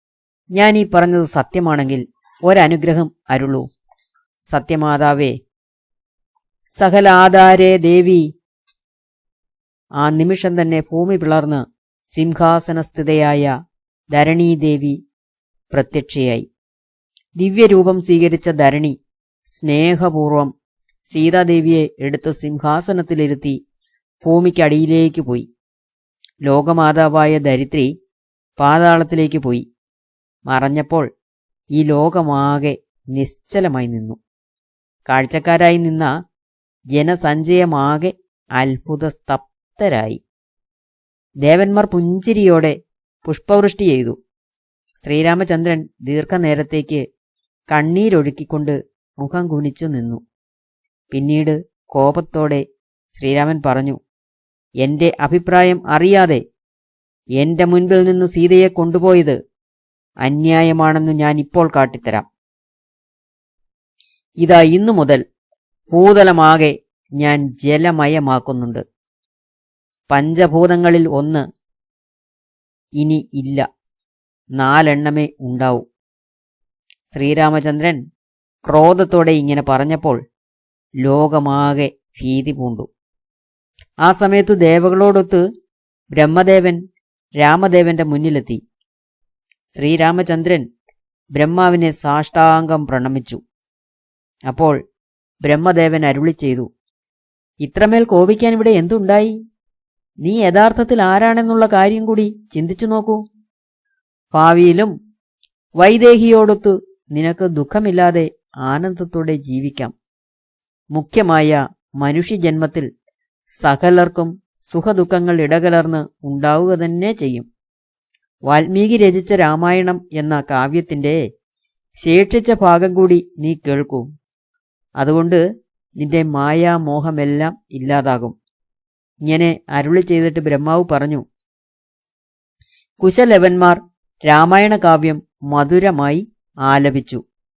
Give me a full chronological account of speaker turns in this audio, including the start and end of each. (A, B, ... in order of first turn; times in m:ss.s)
0:00.5-0:03.6 A
0:04.5-0:05.3 A
0:06.7-0:08.2 A
0:10.0-0:13.5 A
0:14.1-0:15.0 A
0:15.7-0:16.5 A
0:17.4-0:18.9 A
0:19.5-0:20.5 A
0:21.1-0:23.6 A
0:24.2-0:25.4 A
0:26.4-0:27.9 A
0:28.6-0:29.6 A
0:30.5-0:31.0 A
0:31.7-0:34.2 A
0:35.1-0:36.1 A
0:36.9-0:40.2 A
0:41.4-0:42.7 A
0:43.2-0:44.2 A
0:45.0-0:47.0 A
0:47.7-0:50.2 A
0:51.1-0:52.6 A
0:53.1-0:54.0 A
0:54.8-0:56.4 A
0:57.4-0:59.4 A
1:00.2-1:02.2 A
1:04.4-1:05.2 A
1:05.9-1:08.8 A
1:10.1-1:11.4 A
1:13.0-1:13.6 A
1:14.6-1:15.8 A
1:17.1-1:18.0 A
1:18.7-1:20.2 A
1:21.0-1:22.9 A
1:24.0-1:25.4 A
1:26.1-1:26.8 A
1:27.4-1:28.6 A
1:29.7-1:30.6 A
1:31.3-1:33.4 A
1:34.5-1:34.7 A
1:35.4-1:36.7 A
1:37.6-1:39.3 A
1:40.2-1:43.2 A
1:44.3-1:44.9 A
1:45.8-1:49.9 A
1:50.9-1:52.9 A
1:53.6-1:57.5 A
1:58.5-2:01.2 A
2:02.0-2:04.0 A
2:05.0-2:05.4 A
2:06.0-2:08.3 A
2:09.2-2:11.2 A
2:13.0-2:17.2 A